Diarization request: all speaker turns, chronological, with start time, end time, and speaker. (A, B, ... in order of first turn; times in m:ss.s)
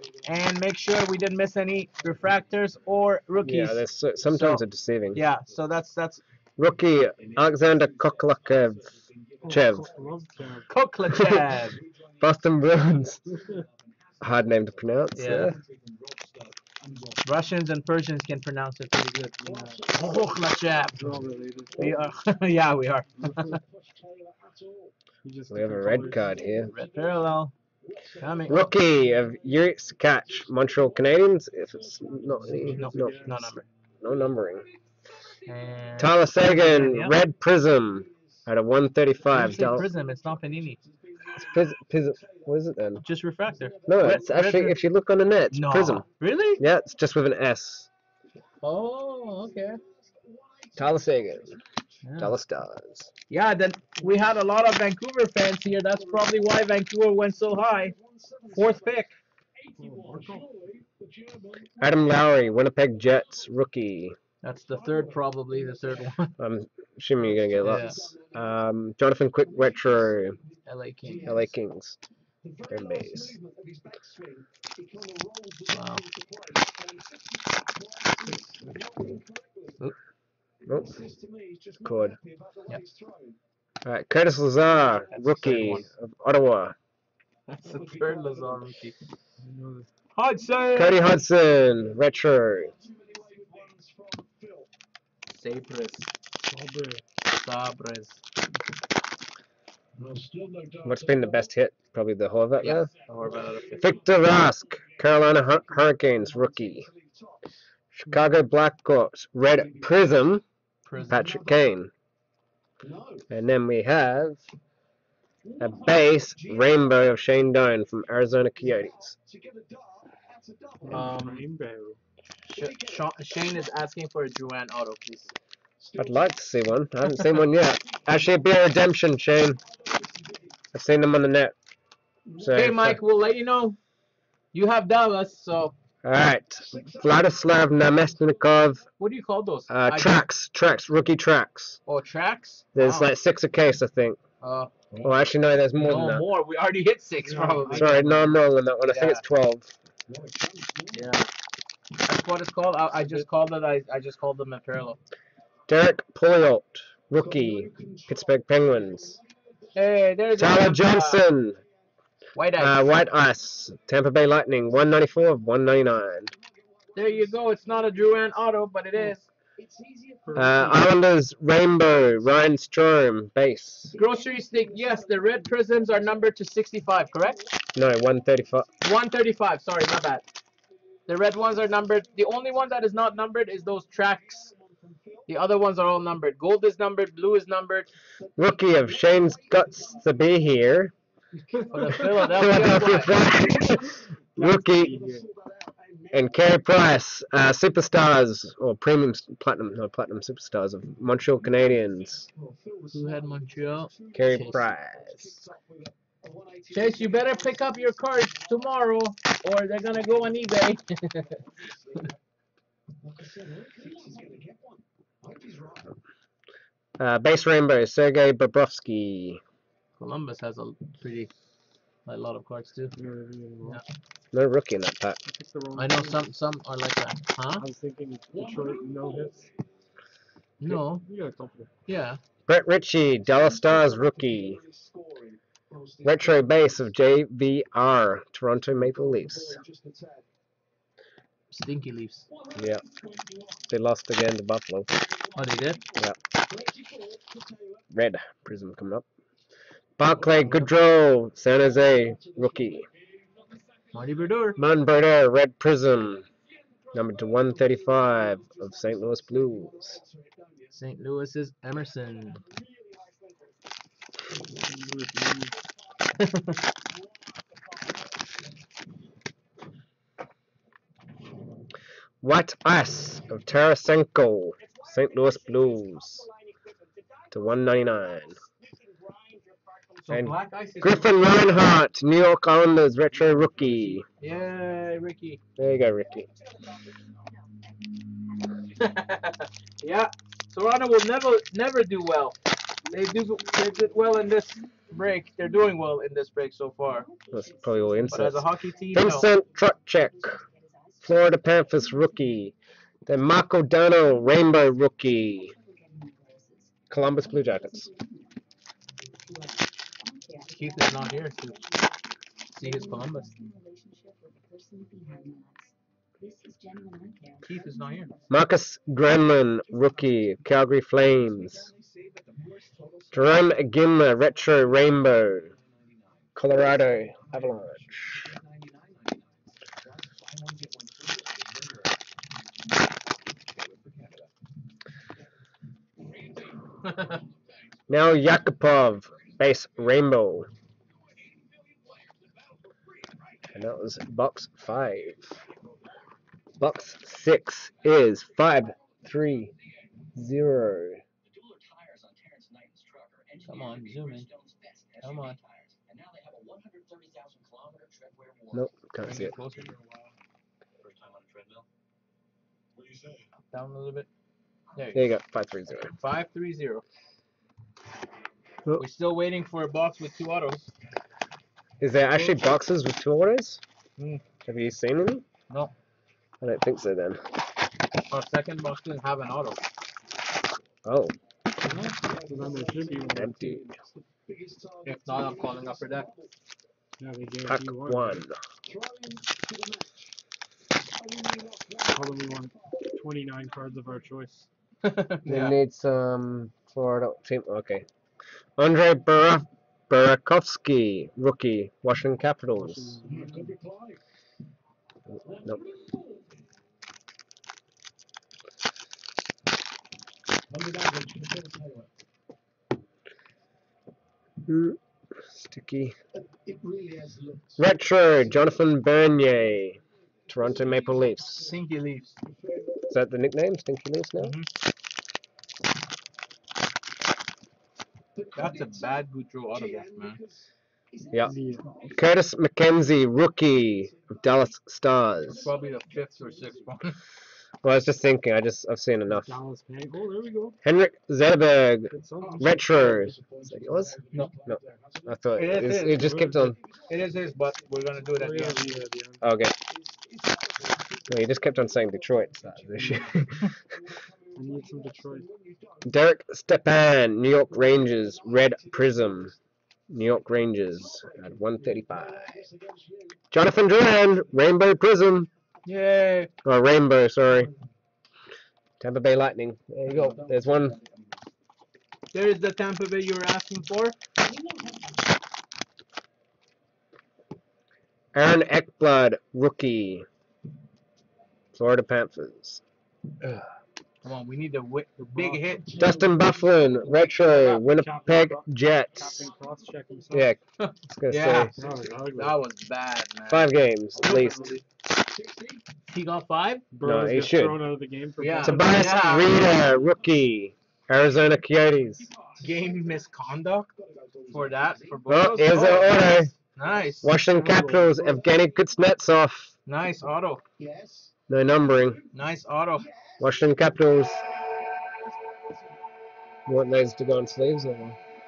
0:00.2-0:04.6 A
0:03.4-0:05.2 B
0:05.1-0:06.2 A
0:06.6-0:09.0 B
0:09.4-0:10.7 C
0:09.5-0:09.9 B
0:10.7-0:11.8 A
0:11.2-0:11.4 B
0:12.2-0:13.2 B
0:14.2-0:15.6 B
0:15.1-0:15.5 A
0:17.2-0:21.0 A
0:20.9-0:22.0 C
0:21.8-0:23.6 A
0:25.2-0:26.4 C
0:25.5-0:26.7 B
0:26.5-0:27.5 A
0:28.2-0:28.6 A
0:28.5-0:33.3 B
0:32.4-0:33.5 C
0:32.7-0:33.6 A
0:34.0-0:34.7 B
0:35.4-0:37.2 A
0:36.0-0:39.9 B
0:39.3-0:40.8 A
0:41.3-0:43.0 B
0:43.0-0:44.8 A
0:43.9-0:46.0 B
0:45.5-0:46.6 A
0:46.6-0:47.9 B
0:48.6-0:49.8 A
0:50.8-0:51.6 B
0:52.0-0:52.3 A
0:52.2-0:53.1 B
0:53.3-0:58.0 A
0:58.5-0:59.1 A
0:59.8-1:00.5 C
1:01.8-1:04.2 B
1:04.4-1:06.3 A
1:06.4-1:10.4 B
1:07.6-1:08.1 A
1:10.6-1:11.4 A
1:11.2-1:12.0 B
1:12.7-1:13.4 B
1:15.7-1:16.0 A
1:20.7-1:21.0 B
1:21.8-1:22.2 B
1:23.8-1:26.7 B
1:25.1-1:25.8 A
1:27.5-1:29.0 A
1:29.4-1:29.9 C
1:30.1-1:31.0 A
1:30.8-1:32.7 B
1:35.3-1:36.1 A
1:36.5-1:37.0 C
1:37.2-1:38.2 A
1:40.8-1:42.9 B
1:42.6-1:43.8 A
1:43.7-1:46.9 B
1:47.9-1:50.4 B
1:50.8-1:51.4 A
1:51.1-1:51.9 B
1:53.3-1:54.4 B
1:55.6-1:59.2 B
2:00.8-2:02.0 C
2:00.9-2:01.4 A
2:02.5-2:05.3 A
2:06.0-2:09.6 B
2:10.7-2:11.5 B
2:12.4-2:13.0 B
2:12.4-2:13.8 A
2:14.5-2:15.7 A
2:16.0-2:18.8 B
2:19.0-2:20.2 A
2:19.7-2:21.8 B
2:21.8-2:23.1 A
2:22.7-2:24.2 B
2:24.4-2:25.0 A
2:25.0-2:26.2 B
2:25.8-2:28.3 A
2:27.2-2:28.2 C
2:27.7-2:29.8 B
2:28.9-2:29.2 A
2:30.9-2:31.3 A
2:32.0-2:35.0 A
2:35.7-2:39.2 B
2:39.7-2:41.2 A
2:40.4-2:41.6 B
2:42.3-2:42.9 A
2:42.6-2:46.3 B
2:46.9-2:49.3 A
2:50.2-2:50.8 C
2:50.3-2:54.0 B
2:53.9-2:57.4 A
2:57.7-2:58.6 B
2:58.8-3:00.2 A
3:01.1-3:04.5 A
3:05.3-3:07.9 A
3:08.4-3:10.9 B
3:11.7-3:13.2 A
3:11.8-3:12.1 C
3:12.2-3:14.9 B
3:14.4-3:15.3 C
3:16.1-3:22.3 B
3:22.9-3:24.6 A
3:24.1-3:25.5 B
3:26.7-3:31.4 A
3:37.0-3:39.4 B
3:40.0-3:41.3 A
3:42.0-3:42.9 A
3:42.9-3:43.8 C
3:44.3-3:45.2 B
3:45.2-3:46.3 C
3:45.8-3:47.6 A
3:47.6-3:49.5 C
3:50.6-3:51.0 A
3:50.6-3:51.7 C
3:51.9-3:52.2 A
3:52.5-3:54.6 B
3:56.0-3:59.6 B
4:01.5-4:02.3 A
4:02.6-4:02.8 B
4:03.7-4:04.9 B
4:05.4-4:05.8 A
4:07.9-4:09.0 B
4:10.0-4:12.9 B
4:10.2-4:10.7 A
4:13.9-4:14.6 A
4:14.6-4:16.3 B
4:16.9-4:20.0 B
4:20.7-4:22.4 A
4:24.6-4:25.6 C
4:26.2-4:26.6 A
4:32.2-4:36.3 B
4:37.3-4:38.4 B
4:40.0-4:41.1 A
4:40.1-4:44.0 B
4:44.2-4:45.4 A
4:45.6-4:46.3 B
4:48.8-4:57.1 A
4:57.3-5:00.4 B
4:58.1-4:59.3 A
5:01.0-5:02.5 B
5:03.0-5:05.5 B
5:06.9-5:07.9 B
5:10.5-5:11.6 A
5:12.5-5:13.3 A
5:17.4-5:18.2 A
5:18.3-5:21.7 B
5:23.1-5:25.5 B
5:26.4-5:28.3 B
5:36.8-5:37.1 A
5:37.9-5:40.5 B
5:43.5-5:45.3 B
5:46.6-5:49.5 B
5:50.2-5:51.0 B
5:53.4-5:54.3 A
5:55.0-5:55.4 A
5:58.5-5:59.3 B
5:59.0-5:59.8 A
6:00.8-6:01.4 A
6:03.5-6:04.1 A
6:04.7-6:05.0 A
6:04.9-6:05.9 B
6:05.9-6:06.8 A
6:08.8-6:10.7 A
6:11.8-6:13.6 B
6:14.4-6:15.2 B
6:16.4-6:17.2 B
6:18.1-6:19.6 A
6:20.8-6:21.1 B
6:21.6-6:23.9 C
6:23.1-6:23.6 B
6:24.8-6:26.1 A
6:27.0-6:28.2 C
6:27.4-6:28.4 B
6:31.9-6:34.5 C
6:34.8-6:35.6 A
6:35.2-6:37.8 B
6:38.6-6:43.0 B
6:42.6-6:43.6 C
6:45.3-6:45.6 B
6:54.4-6:55.9 B
6:57.6-7:01.5 B
7:01.4-7:02.1 A
7:02.9-7:04.3 B
7:04.2-7:04.5 A
7:08.3-7:10.2 A
7:11.2-7:11.7 C
7:11.9-7:15.5 B
7:15.4-7:17.0 A
7:17.6-7:19.3 B
7:19.1-7:20.6 C
7:20.6-7:26.6 B
7:21.9-7:23.1 C
7:25.4-7:26.1 A
7:25.9-7:26.6 C
7:26.9-7:28.6 A
7:28.2-7:29.2 C
7:29.2-7:29.5 B
7:31.1-7:33.5 B
7:34.3-7:35.3 C
7:35.8-7:39.3 B
7:39.9-7:42.5 B
7:43.3-7:45.3 B
7:45.6-7:46.3 A
7:46.4-7:47.5 B
7:48.8-7:50.8 B
7:52.1-7:54.0 A
7:58.1-8:00.0 B
8:01.5-8:02.6 B
8:04.0-8:05.7 A
8:05.0-8:05.4 C
8:05.8-8:09.3 B
8:06.8-8:10.3 C
8:10.1-8:10.4 B
8:10.6-8:13.5 A
8:10.9-8:11.5 B
8:11.6-8:12.4 C
8:13.3-8:14.4 B
8:14.0-8:14.5 C
8:14.0-8:14.6 A
8:15.9-8:16.6 A
8:16.7-8:18.9 C
8:16.8-8:17.6 B
8:18.2-8:19.3 A
8:18.4-8:22.1 B
8:22.4-8:23.7 A
8:24.3-8:27.1 A
8:25.1-8:26.3 B
8:27.0-8:29.5 B
8:27.3-8:28.2 C
8:29.6-8:30.4 A
8:31.3-8:32.0 B
8:32.1-8:32.9 A
8:33.2-8:34.2 B
8:36.5-8:38.0 B